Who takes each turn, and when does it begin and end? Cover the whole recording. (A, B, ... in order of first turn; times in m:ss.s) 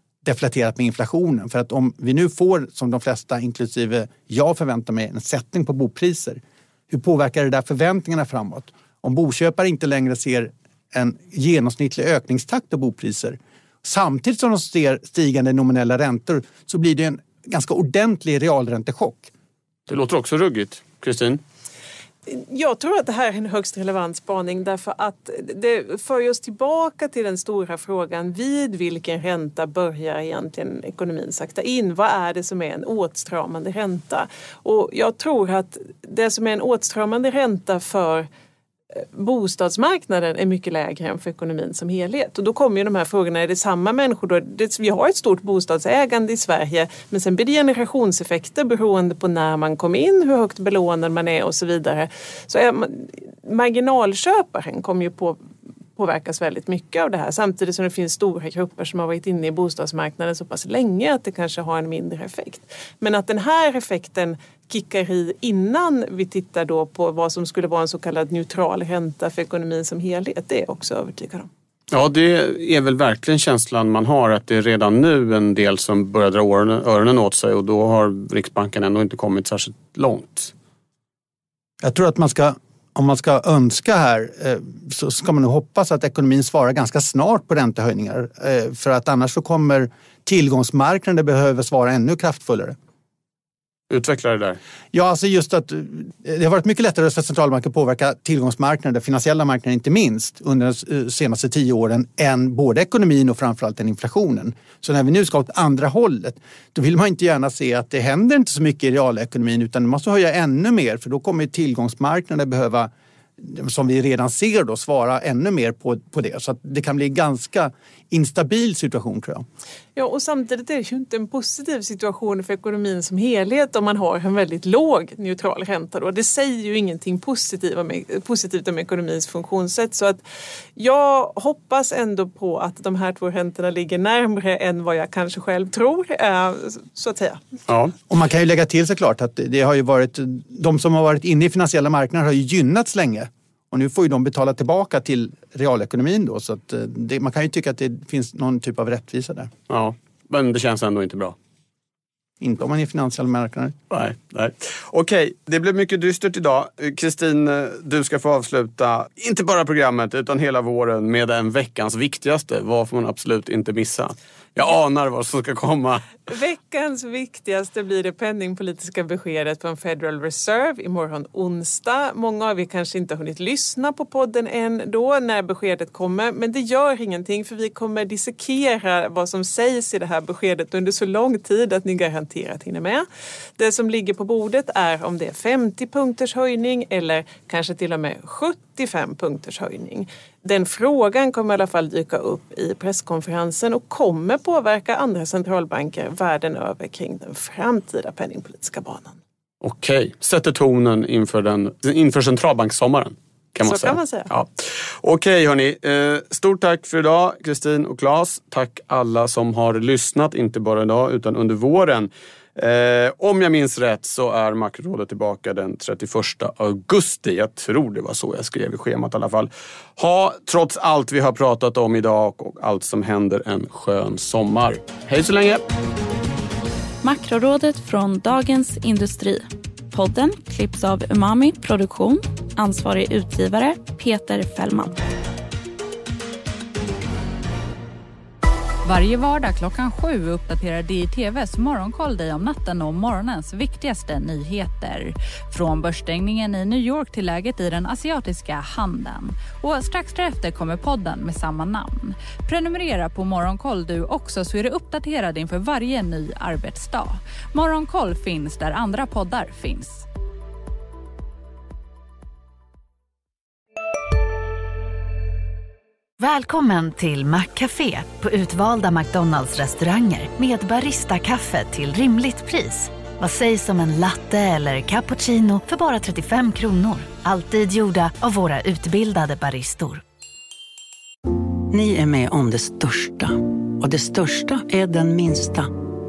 0:00.2-0:19.3 A
0:19.9-0:21.4 B
0:22.3-0:38.3 C
0:39.0-0:55.4 C
0:56.0-1:11.5 C
1:11.9-1:20.5 B
1:21.8-1:32.8 A
1:33.9-1:34.6 B
1:34.9-1:59.4 A
2:00.0-2:10.2 C
2:10.8-2:17.4 C
2:17.7-2:17.9 B
2:18.1-2:29.5 A
2:29.7-2:31.4 B
2:32.4-2:33.8 A
2:33.9-2:46.1 B
2:46.3-3:03.1 C
3:03.6-3:19.2 C
3:19.6-3:45.6 B
3:23.6-3:24.3 C
3:47.0-3:55.0 D
3:58.8-4:20.1 E
4:26.2-4:40.0 F
4:41.7-4:45.7 G